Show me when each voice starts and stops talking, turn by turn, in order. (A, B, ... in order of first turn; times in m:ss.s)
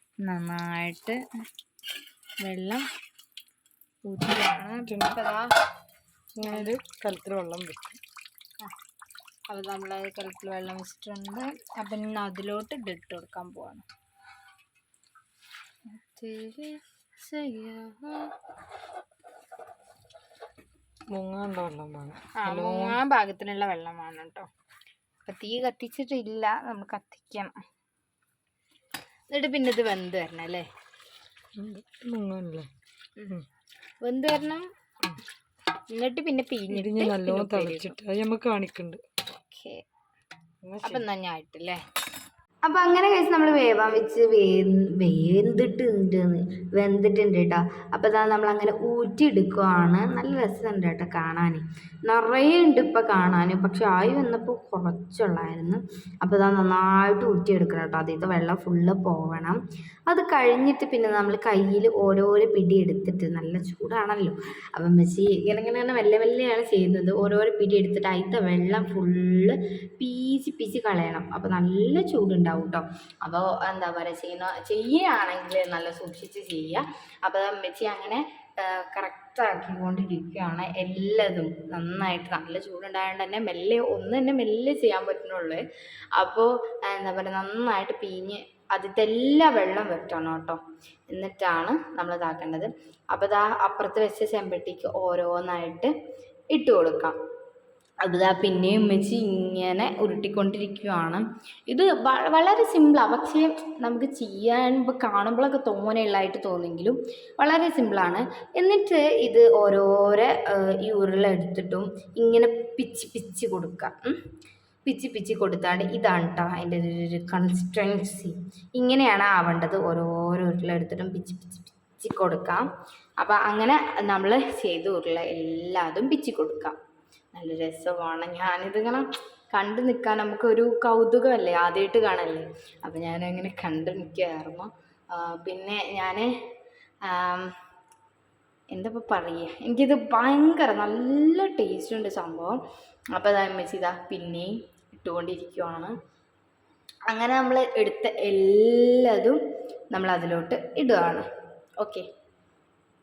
0:00.2-0:01.2 A
0:02.4-0:02.9 A
0:04.0-0:05.5 A
0:04.9-0:05.2 B
0:06.4-0:08.0 B
0:09.5-0:13.8 A
0:15.9-0:18.3 A
0:21.1-0:23.0 B
0:22.4-0:24.5 A
0:25.2-0:27.6 A
0:29.3-0:30.7 A
0:31.6-0:32.7 B
0:34.0-0:34.7 A
0:35.9-0:38.0 A
0:36.7-0:39.0 B
0:39.5-0:39.8 A
0:40.6-0:41.0 B
0:40.8-0:41.8 A
0:42.6-1:25.6 A
1:26.1-1:35.9 A
1:36.5-1:37.2 A
1:38.0-1:54.2 A
1:54.8-2:02.7 A
2:03.2-2:06.8 A
2:07.3-2:16.3 A
2:17.0-2:17.5 A
2:18.7-2:22.6 A
2:23.1-2:25.9 A
2:27.1-2:29.4 A
2:29.9-2:31.3 A
2:31.8-2:32.0 A